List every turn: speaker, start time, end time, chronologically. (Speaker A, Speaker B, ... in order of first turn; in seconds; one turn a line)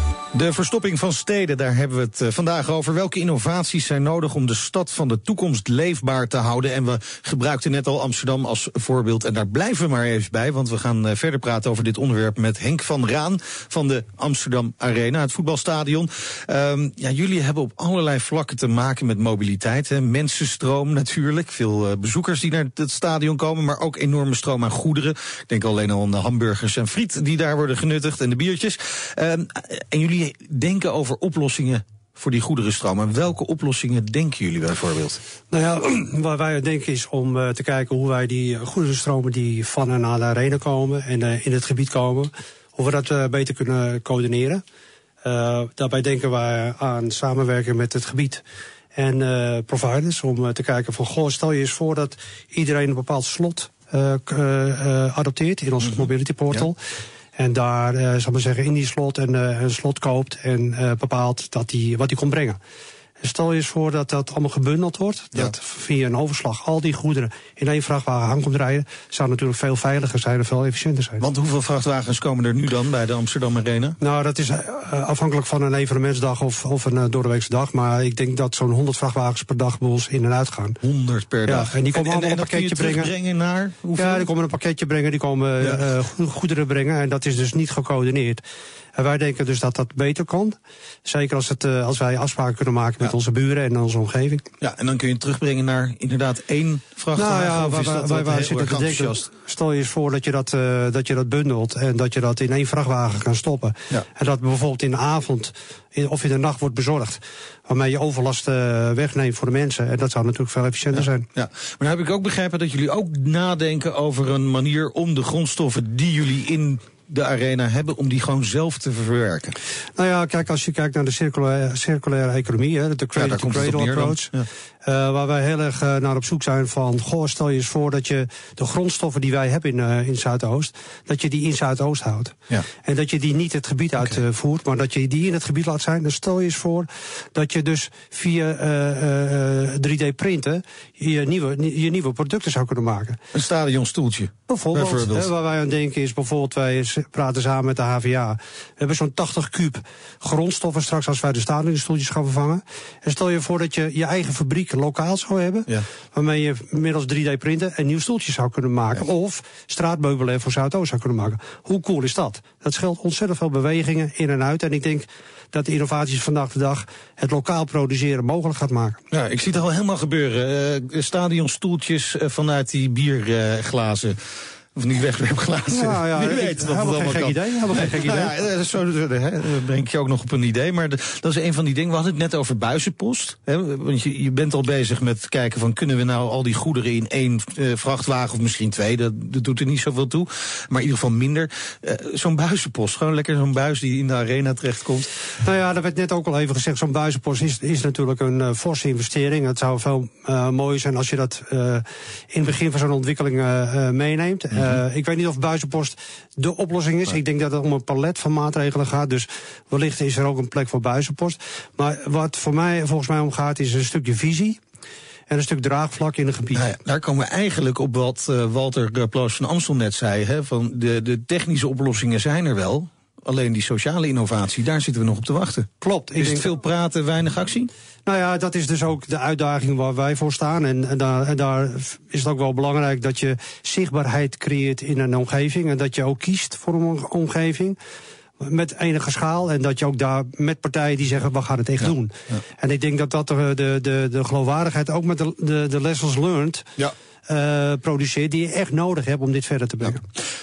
Speaker A: 0.3-35.2
Speaker B: 35.5-44.6
Speaker B: 45.2-48.4
Speaker B: 49.0-56.8
Speaker A: 55.8-56.6
Speaker B: 57.4-62.6
Speaker B: 63.2-71.3
Speaker A: 71.2-74.0
Speaker B: 74.0-80.8
Speaker A: 80.8-84.3
Speaker B: 81.5-83.1
Speaker B: 84.0-88.4
Speaker B: 89.0-94.5
Speaker A: 94.6-99.3
Speaker B: 97.2-111.3
Speaker A: 111.0-119.6
Speaker B: 120.0-124.3
Speaker A: 123.2-124.5
Speaker B: 124.8-143.2
Speaker A: 143.3-145.3
Speaker B: 144.5-169.0
Speaker A: 169.1-174.2
Speaker A: 174.8-195.1
Speaker B: 175.7-178.3
Speaker B: 195.4-214.6
Speaker A: 204.5-204.8
Speaker B: 215.3-216.8
Speaker A: 216.5-227.7
Speaker B: 225.8-226.6
Speaker B: 228.1-237.8
Speaker B: 238.4-246.7
Speaker B: 247.3-250.0